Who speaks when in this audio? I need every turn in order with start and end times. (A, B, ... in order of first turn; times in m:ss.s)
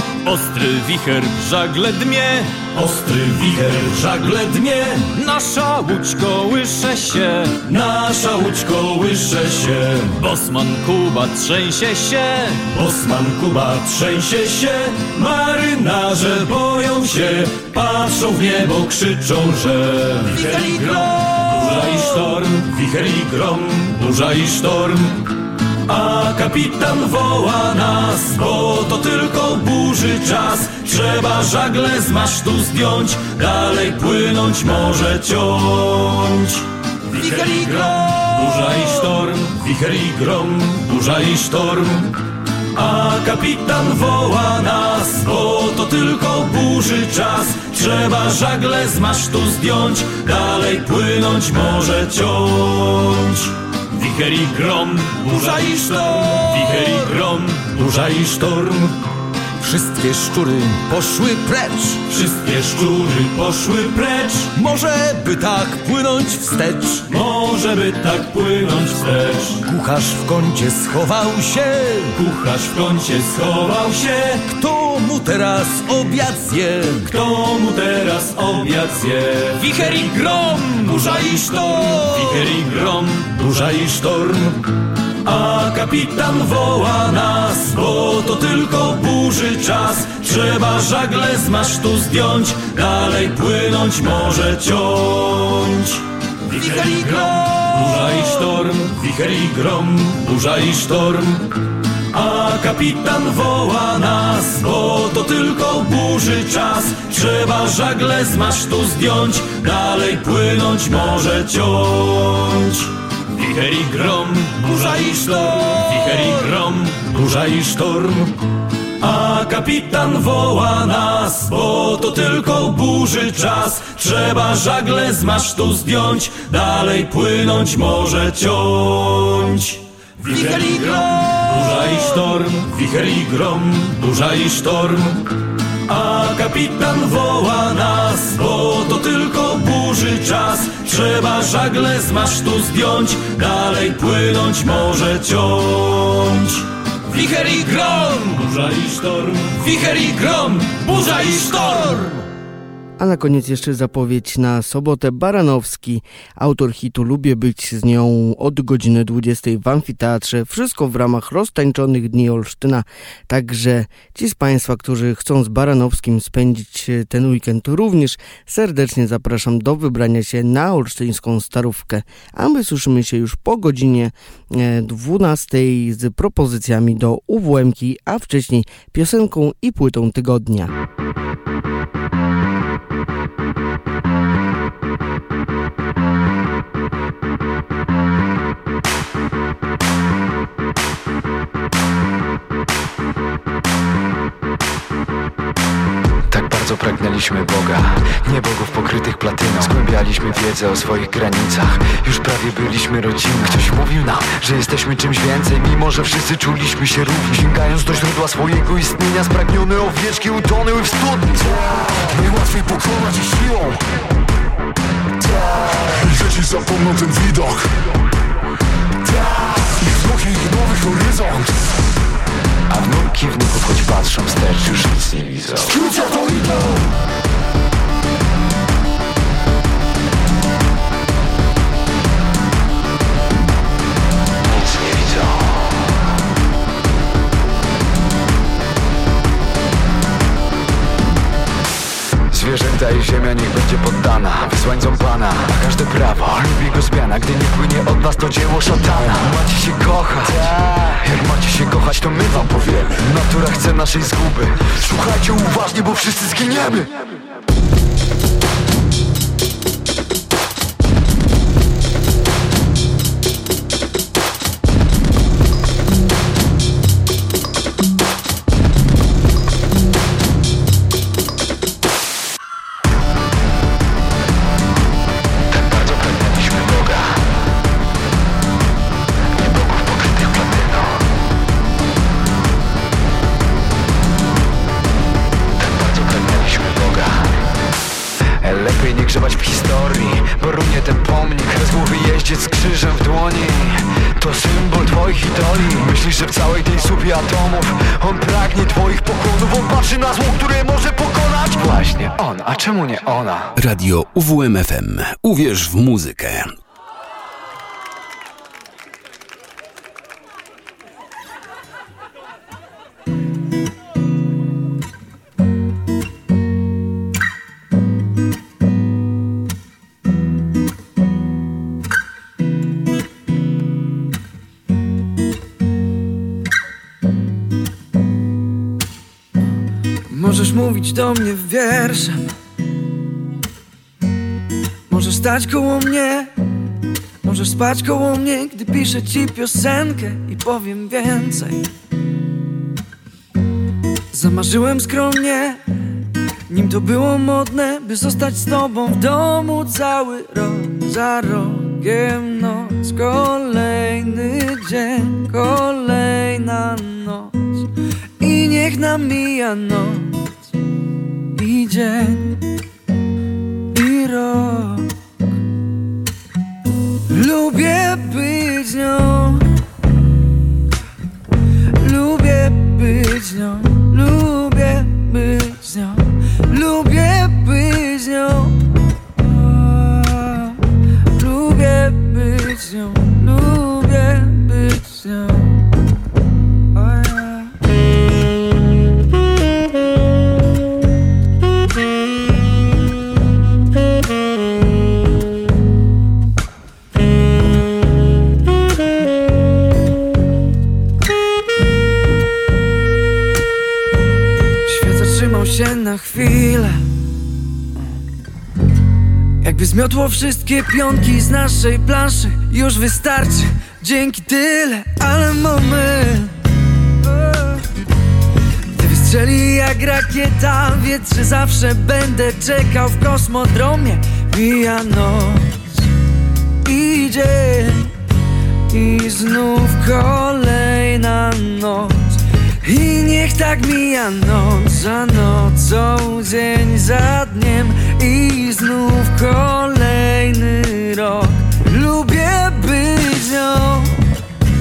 0:00.2-0:25.2 A
0:25.9-0:42.1 A
0:42.7-0:58.9 A
0:56.3-0:56.8 B
0:59.6-1:02.1 B
1:02.1-1:04.5 A
1:04.5-1:07.1 B
1:07.1-1:09.6 A
1:09.6-1:12.2 B
1:12.1-1:14.4 A
1:14.4-1:17.2 B
1:17.0-1:24.6 A
1:19.7-1:20.0 B
1:21.6-1:22.4 B
1:25.2-1:41.4 A
1:42.1-1:58.3 A
1:59.0-2:15.2 A
2:15.9-2:32.2 A
2:33.0-3:00.7 C
3:16.3-3:32.0 D
3:32.1-3:33.8 E
3:35.9-3:37.7 E
3:39.7-3:41.6 E
3:42.7-3:45.9 D
3:45.7-3:46.8 E
3:54.5-3:55.6 D
4:02.3-4:16.9 D
4:35.7-4:37.2 D
4:39.4-4:41.0 D
4:45.7-4:47.3 D
4:48.4-5:03.5 D
5:03.6-5:06.5 F
5:30.1-5:32.2 G
5:34.9-5:36.3 G
5:37.2-5:41.6 G
5:44.1-5:45.6 G
5:46.5-5:57.6 G
5:58.2-6:00.1 G
6:01.4-6:02.4 G
6:03.7-6:04.9 G
6:07.1-6:09.4 G
6:11.8-6:18.5 G
6:19.2-6:20.6 G
6:21.2-6:25.5 G
6:26.7-6:27.5 G
6:44.7-6:46.8 G
6:49.4-6:56.3 G
6:57.0-6:57.6 G
6:58.7-7:05.6 G
7:06.6-7:07.9 G
7:08.7-7:23.9 G